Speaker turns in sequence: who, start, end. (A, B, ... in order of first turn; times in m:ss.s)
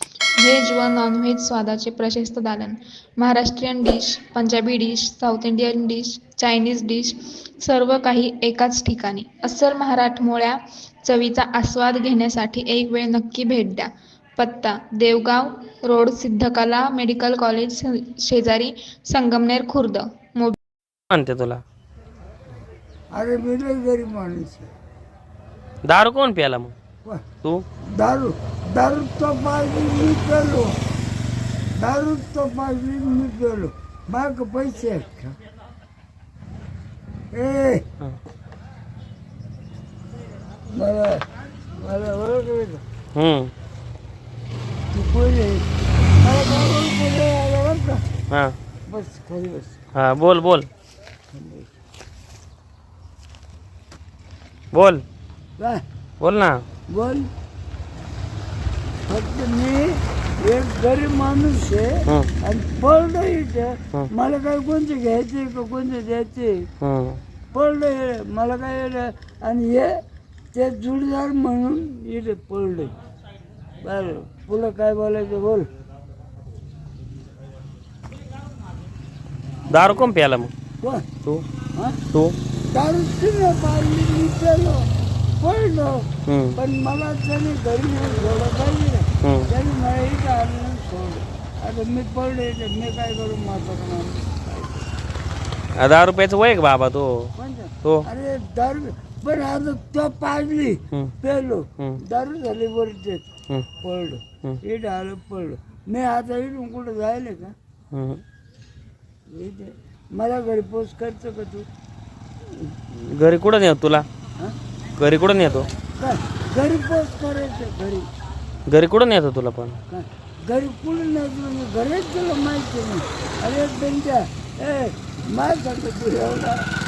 0:00.4-0:20.6 A
0:21.1-0:21.6 B
0:23.1-0:24.7 C
0:25.8-0:26.8 B
0:27.8-0:30.8 C
0:31.8-0:35.4 C
0:37.3-0:37.9 C
0:40.7-0:41.2 C
0:41.8-0:42.8 C
0:43.2-0:43.5 B
0:44.9-0:45.7 C
0:46.2-0:48.1 C
0:48.9-0:49.8 C
0:50.0-0:50.7 B
0:51.3-0:51.7 C
0:54.7-0:55.0 B
0:55.6-0:55.8 C
0:56.2-0:56.6 B
0:56.9-0:57.3 C
0:59.1-1:06.7 C
1:06.8-1:07.2 B
1:07.5-1:10.0 C
1:10.5-1:12.9 C
1:13.8-1:15.7 C
1:19.7-1:20.5 B
1:20.8-1:21.1 C
1:21.7-1:22.0 C
1:22.7-1:34.9 C
1:26.3-1:26.6 B
1:29.2-1:29.5 B
1:35.8-1:37.3 B
1:37.4-1:47.6 C
1:47.9-1:48.2 B
1:49.3-1:51.7 C
1:52.7-1:54.0 B
1:55.0-1:55.7 B
1:56.0-1:58.1 C
1:58.7-1:59.8 B
1:59.9-2:06.7 C